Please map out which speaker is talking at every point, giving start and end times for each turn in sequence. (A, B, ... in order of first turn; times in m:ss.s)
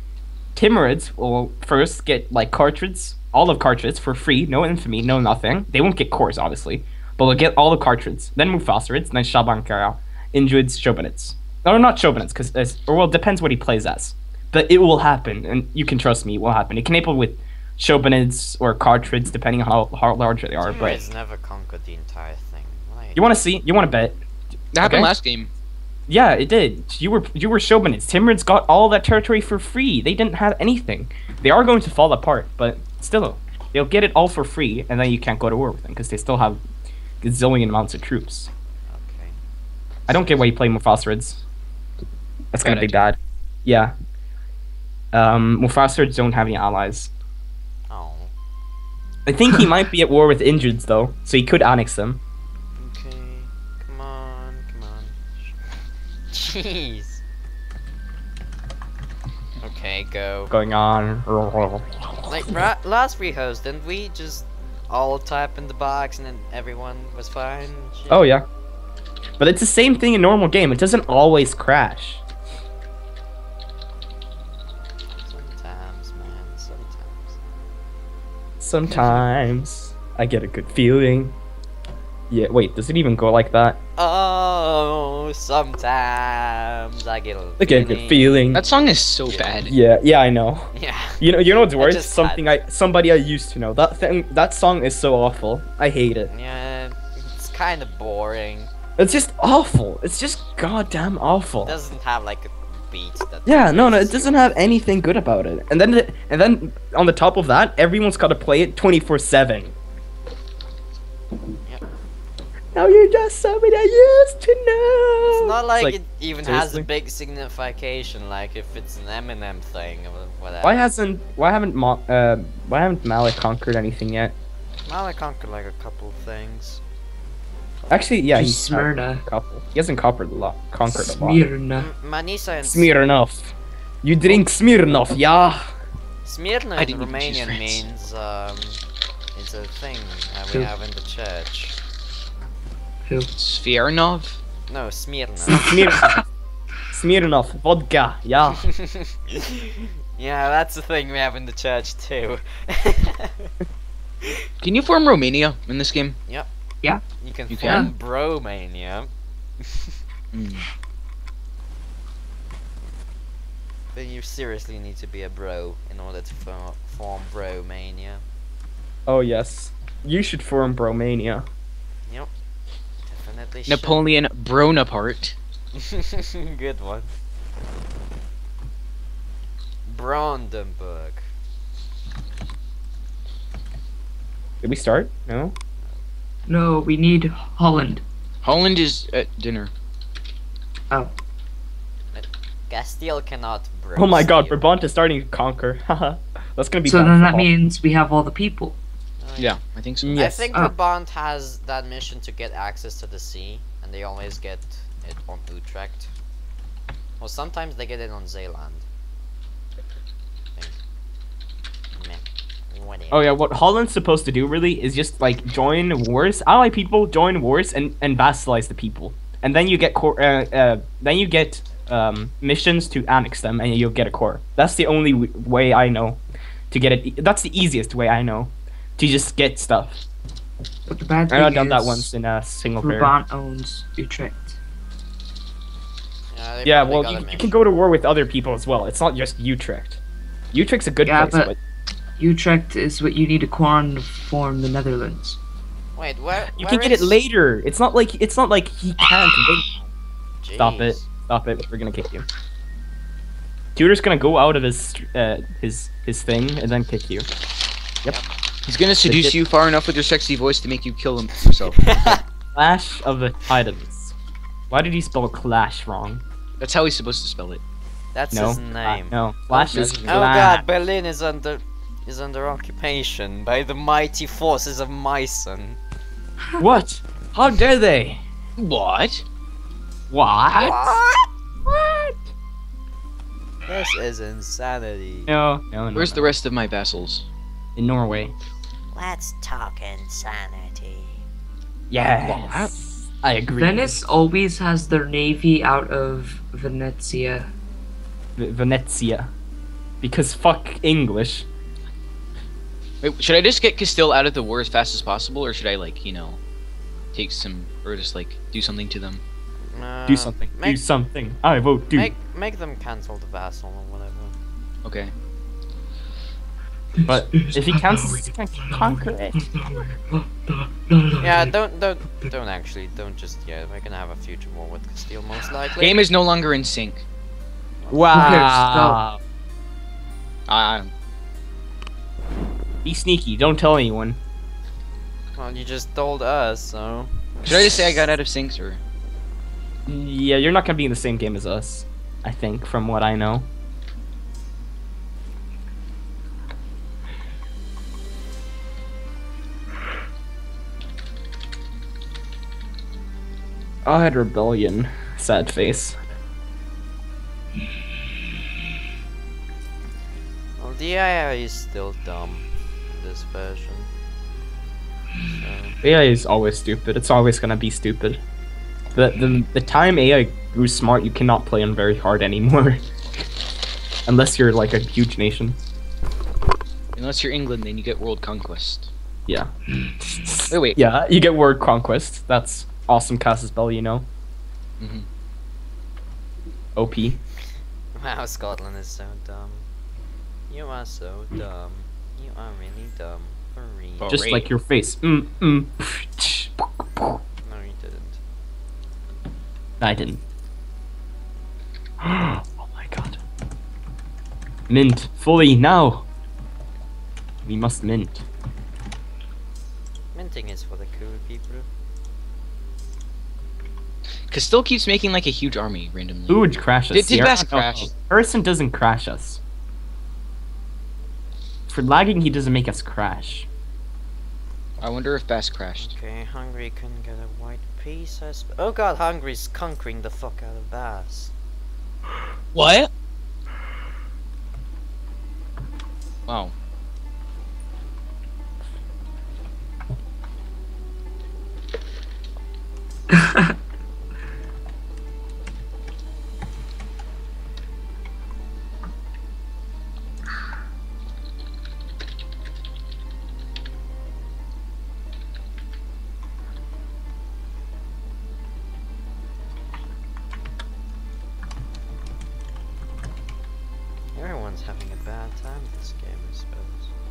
0:00.6-0:21.0 A
0:20.6-0:23.3 B
0:23.1-0:24.2 A
0:24.7-0:25.5 C
0:24.8-0:25.1 A
0:26.1-0:36.6 A
0:37.2-0:38.5 A
0:38.9-0:39.4 B
0:40.1-0:41.4 A
0:42.5-0:43.9 A
0:42.6-0:43.0 C
0:45.1-0:47.1 A
0:47.9-0:48.3 B
0:49.2-0:52.2 A
0:52.8-0:55.5 B
0:56.3-0:57.2 B
0:59.6-1:00.5 B
1:00.5-1:02.6 A
1:02.3-1:08.3 B
1:08.1-1:08.4 A
1:09.4-1:12.2 A
1:15.2-1:17.4 B
1:18.6-1:21.4 A
1:18.9-1:19.2 B
1:22.3-1:23.8 A
1:24.0-1:29.6 B
1:27.6-1:28.6 A
1:28.5-1:29.7 C
1:29.6-1:36.3 A
1:30.7-1:32.5 B
1:36.3-1:38.7 B
1:39.0-1:41.8 A
1:41.6-1:44.5 B
1:43.4-1:49.7 A
1:52.7-1:56.9 A
1:55.3-2:00.8 B
2:00.6-2:04.4 A
2:04.8-2:06.8 B
2:07.9-2:11.4 A
2:08.3-2:09.2 D
2:10.9-2:11.9 D
2:11.8-2:12.9 B
2:12.6-2:15.7 A
2:16.2-2:18.8 B
2:16.8-2:17.8 C
2:19.3-2:21.8 B
2:23.0-2:23.3 D
2:23.4-2:24.4 C
2:24.7-2:25.7 B
2:25.5-2:26.2 A
2:25.5-2:26.2 D
2:26.9-2:28.7 A
2:28.6-2:33.5 B
2:34.6-2:36.2 C
2:37.2-2:39.9 B
2:37.5-2:37.9 C
2:37.6-2:37.9 D
2:40.3-2:40.6 C
2:43.9-2:48.2 B
2:49.1-2:51.5 A
2:53.0-2:54.0 B
2:53.7-2:55.4 C
2:55.8-2:57.1 B
2:59.8-3:01.2 B
3:04.6-3:05.5 A
3:06.5-3:08.0 D
3:08.4-3:09.7 C
3:12.1-3:14.6 B
3:13.9-3:17.5 A
3:16.8-3:18.8 D
3:19.2-3:19.6 B
3:19.4-3:20.2 C
3:20.0-3:20.5 A
3:20.1-3:26.1 B
3:27.2-3:28.8 B
3:32.0-3:33.3 B
3:33.1-3:50.0 A
3:50.9-3:52.1 D
3:51.3-3:53.1 A
3:52.8-3:54.6 D
3:56.3-3:57.6 B
3:56.6-4:00.0 A
4:00.5-4:01.6 A
4:01.0-4:01.5 D
4:02.2-4:05.4 D
4:05.9-4:07.2 B
4:06.5-4:09.7 A
4:10.4-4:11.0 B
4:10.6-4:12.2 A
4:13.8-4:17.3 A
4:18.6-4:22.2 C
4:19.0-4:19.4 A
4:21.8-4:22.2 B
4:22.5-4:24.1 A
4:24.7-4:26.2 A
4:26.6-4:27.6 C
4:28.1-4:35.8 B
4:28.3-4:30.6 A
4:29.7-4:30.4 C
4:36.6-4:38.2 A
4:38.6-4:39.2 C
4:40.1-4:41.0 A
4:40.5-4:41.2 B
4:41.7-4:42.2 A
4:43.7-4:45.3 B
4:45.3-4:46.3 A
4:45.9-4:47.2 C
4:47.8-4:48.3 A
4:48.9-4:51.2 B
4:51.9-4:54.0 A
4:52.2-4:52.7 C
4:53.6-4:57.5 D
4:58.4-4:59.3 A
5:00.0-5:01.5 A
5:03.0-5:06.4 C
5:07.1-5:09.2 C
5:09.7-5:10.8 B
5:10.1-5:12.1 A
5:11.9-5:14.3 B
5:14.8-5:15.1 C
5:17.0-5:19.4 A
5:17.4-5:18.2 D
5:19.4-5:21.5 D
5:21.2-5:26.0 B
5:25.7-5:27.0 C
5:27.8-5:28.5 B
5:27.9-5:29.2 A
5:28.1-5:29.0 D
5:30.5-5:30.9 C
5:32.8-5:34.2 A
5:35.4-5:37.1 B
5:37.4-5:38.8 C
5:39.9-5:43.5 A
5:53.8-5:56.0 A
6:00.6-6:03.9 B
6:05.4-6:05.8 B
6:05.8-6:08.2 A
6:08.9-6:12.8 A
6:14.1-6:15.6 A
6:16.9-6:18.9 C
6:20.0-6:24.1 A
6:20.5-6:20.8 C
6:24.8-6:25.1 C
6:26.8-6:27.2 A
6:28.0-6:29.6 B
6:30.5-6:34.2 B
6:34.0-6:34.5 C
6:34.1-6:37.2 A
6:37.4-6:38.2 B
6:39.8-6:40.2 A
6:42.0-6:43.2 A
6:44.7-6:46.1 A
6:47.4-6:48.2 A
6:50.1-6:51.7 B
6:54.3-6:57.9 C
6:56.3-6:59.4 A
7:01.7-7:03.5 A
7:04.8-7:05.9 C
7:05.8-7:11.3 B
7:12.5-7:12.9 C
7:16.3-7:16.5 C
7:23.1-7:23.5 D
7:44.1-7:46.9 B